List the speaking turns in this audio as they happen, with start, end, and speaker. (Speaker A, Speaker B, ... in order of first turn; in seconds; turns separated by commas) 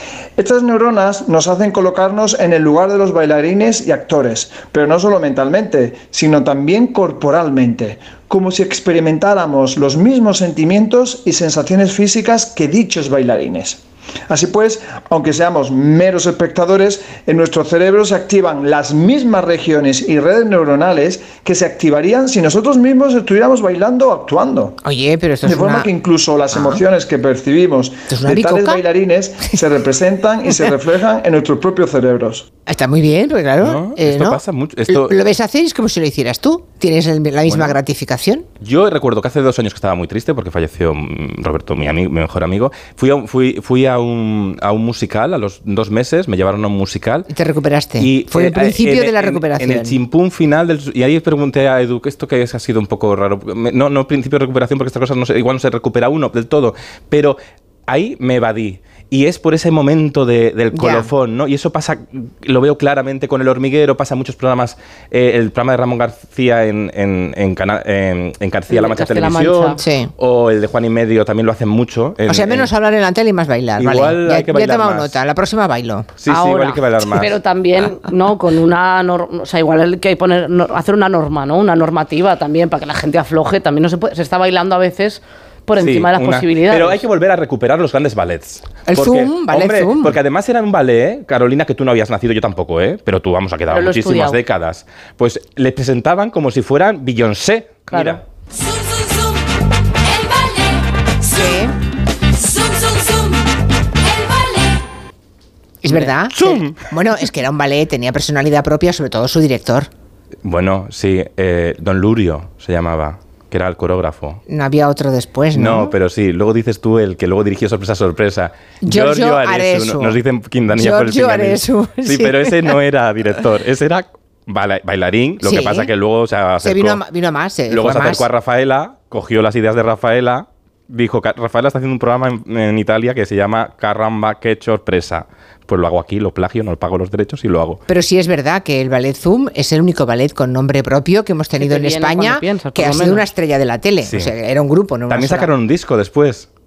Speaker A: 0.4-24.8, Speaker B: 24.8-25.9, Speaker A: 25.4-32.5, Speaker B: 26.5-26.8, Speaker B: 28.1-28.8, Speaker B: 32.7-38.5, Speaker C: 33.6-35.2, Speaker C: 37.5-37.8, Speaker C: 38.6-47.3, Speaker B: 47.3-50.0, Speaker C: 48.0-72.7, Speaker B: 60.7-61.1, Speaker D: 68.7-69.8, Speaker B: 69.8-70.1, Speaker B: 72.3-76.1, Speaker C: 73.8-75.1, Speaker C: 76.2-77.4, Speaker D: 76.3-87.0, Speaker C: 85.8-98.2, Speaker B: 88.9-90.2, Speaker D: 93.7-94.4, Speaker D: 97.9-98.2, Speaker E: 98.7-99.2, Speaker E: 100.1-100.8, Speaker B: 101.2-101.7, Speaker E: 102.4-103.4, Speaker E: 104.1-104.7, Speaker B: 105.8-109.9, Speaker C: 106.3-106.8, Speaker C: 110.4-114.4, Speaker B: 114.5-116.0, Speaker C: 115.5-127.0, Speaker B: 118.8-120.2, Speaker B: 120.7-122.8, Speaker B: 125.4-125.9, Speaker B: 126.6-128.3, Speaker C: 127.7-137.8, Speaker B: 137.9-145.5, Speaker D: 141.6-143.2, Speaker C: 144.0-144.3, Speaker C: 145.1-146.5